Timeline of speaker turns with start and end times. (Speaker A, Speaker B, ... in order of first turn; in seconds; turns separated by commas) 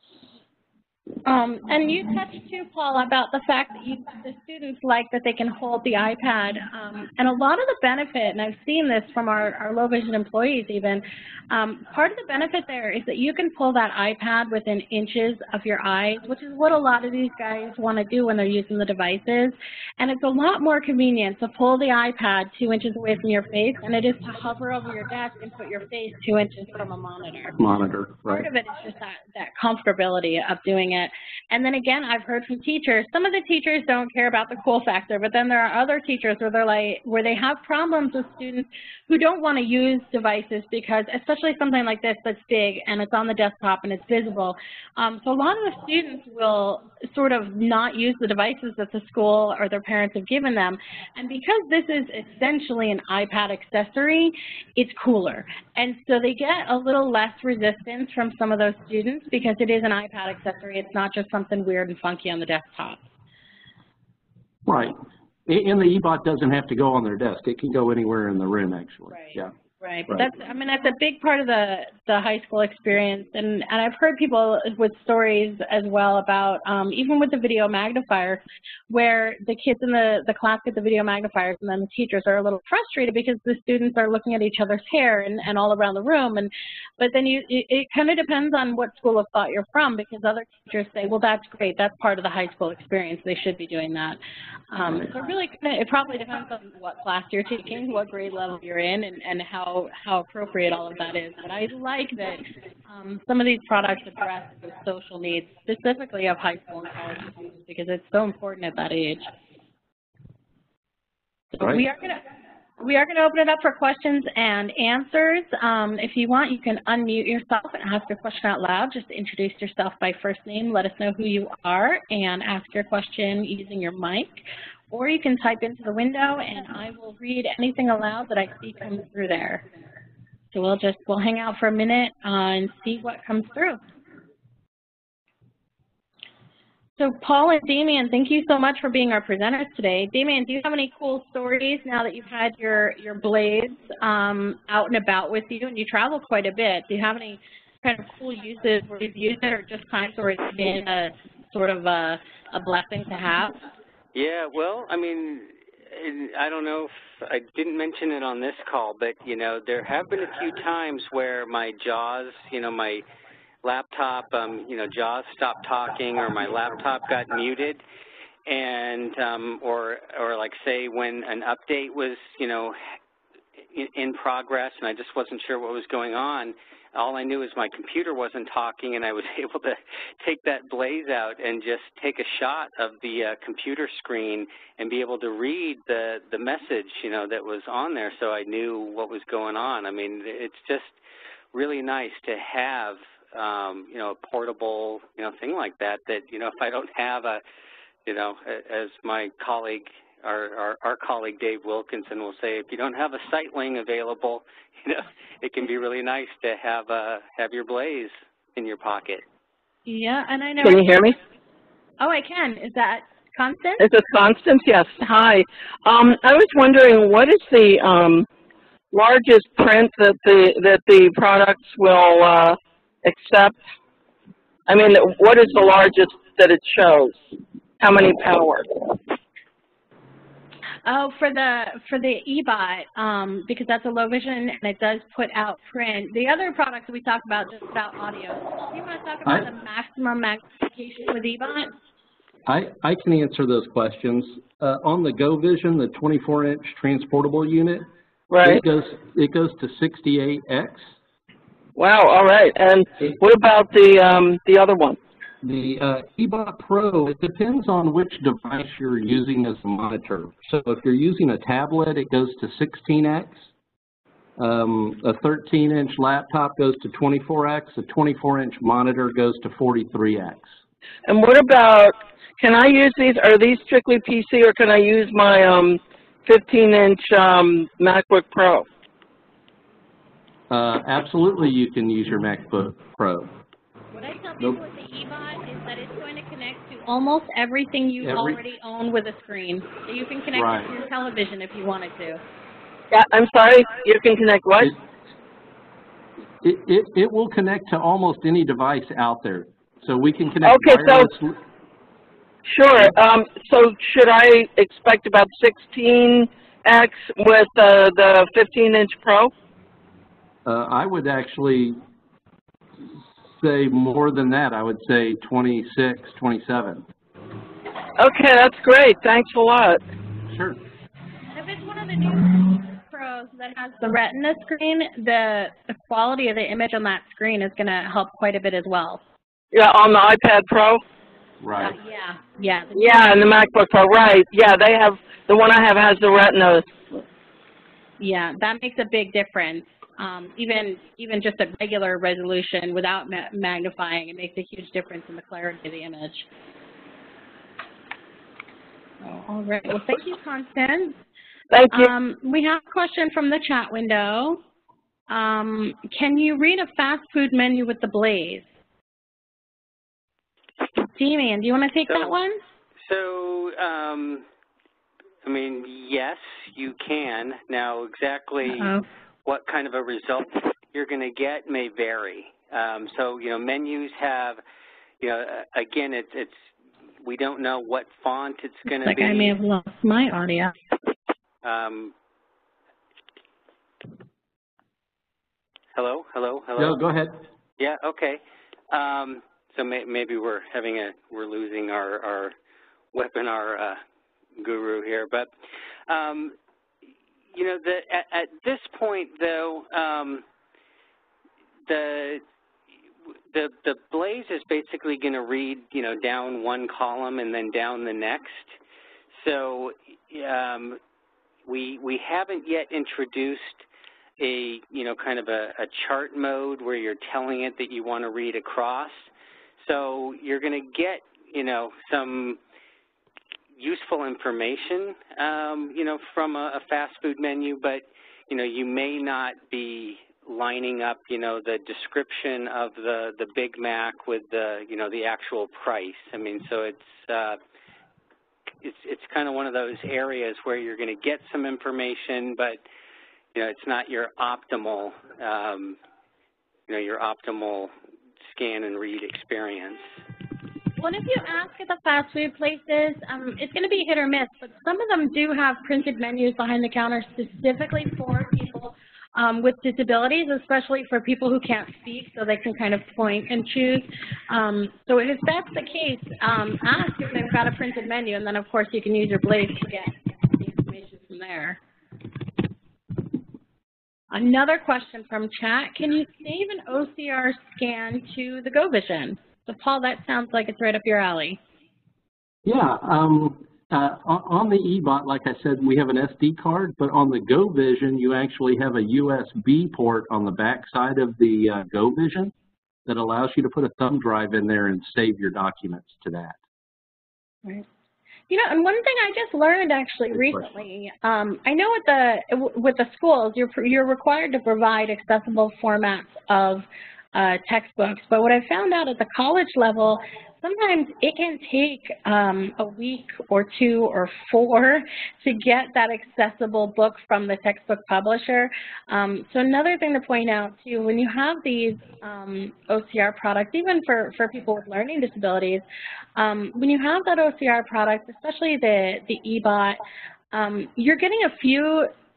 Speaker A: 1.2-27.6, Speaker B: 27.6-28.5, Speaker A: 28.2-63.1, Speaker B: 64.7-69.5, Speaker A: 69.1-94.2, Speaker A: 94.7-109.3, Speaker A: 111.5-112.2, Speaker A: 112.8-129.6, Speaker A: 130.5-133.8, Speaker A: 137.0-153.6, Speaker C: 154.1-163.0, Speaker C: 163.6-167.8, Speaker C: 168.4-172.8, Speaker C: 173.7-191.0, Speaker C: 191.5-197.4, Speaker C: 198.1-209.2, Speaker A: 209.8-210.9, Speaker D: 210.6-211.2, Speaker A: 212.0-213.8, Speaker D: 213.8-218.3, Speaker D: 218.9-223.6, Speaker D: 224.7-227.2, Speaker D: 227.8-228.9, Speaker A: 230.8-241.7, Speaker B: 242.5-247.9, Speaker D: 248.3-248.6, Speaker B: 248.4-250.9, Speaker D: 251.8-255.0, Speaker B: 255.4-263.5, Speaker B: 264.4-270.5, Speaker D: 271.1-278.6, Speaker B: 280.5-283.3, Speaker A: 283.9-292.2, Speaker B: 288.0-288.4, Speaker B: 290.3-290.7, Speaker D: 292.9-294.8, Speaker B: 296.4-301.4, Speaker D: 300.4-301.1, Speaker D: 302.5-309.3, Speaker B: 310.4-311.8, Speaker B: 313.4-316.9, Speaker D: 318.0-319.8, Speaker B: 320.3-320.6, Speaker A: 321.3-329.0, Speaker D: 329.5-330.8, Speaker B: 331.4-331.8, Speaker A: 331.6-333.1, Speaker D: 332.7-337.0, Speaker A: 338.0-346.3, Speaker A: 349.0-351.0, Speaker D: 351.5-351.9, Speaker A: 351.7-354.4, Speaker A: 355.1-358.5, Speaker A: 360.9-362.4, Speaker C: 362.8-364.2, Speaker C: 365.2-368.7, Speaker A: 368.5-368.8, Speaker C: 369.2-374.4, Speaker C: 375.0-376.4, Speaker C: 377.0-379.4, Speaker A: 378.7-380.6, Speaker C: 381.4-381.9, Speaker C: 385.7-386.8, Speaker B: 386.6-387.2, Speaker C: 387.6-392.3, Speaker C: 392.9-393.8, Speaker C: 394.4-395.3, Speaker C: 395.9-396.3, Speaker C: 397.3-400.2, Speaker C: 401.7-402.2, Speaker C: 403.3-408.5, Speaker C: 409.2-410.8, Speaker C: 411.4-413.6, Speaker C: 414.2-422.4, Speaker C: 423.6-437.4, Speaker C: 438.6-442.6, Speaker C: 443.3-445.8, Speaker C: 446.7-447.7, Speaker C: 448.2-449.9, Speaker A: 450.8-471.6, Speaker A: 474.1-481.4, Speaker B: 482.4-492.3, Speaker B: 492.9-496.4, Speaker A: 498.3-525.6, Speaker B: 500.1-500.4, Speaker A: 526.1-529.8, Speaker A: 530.3-531.9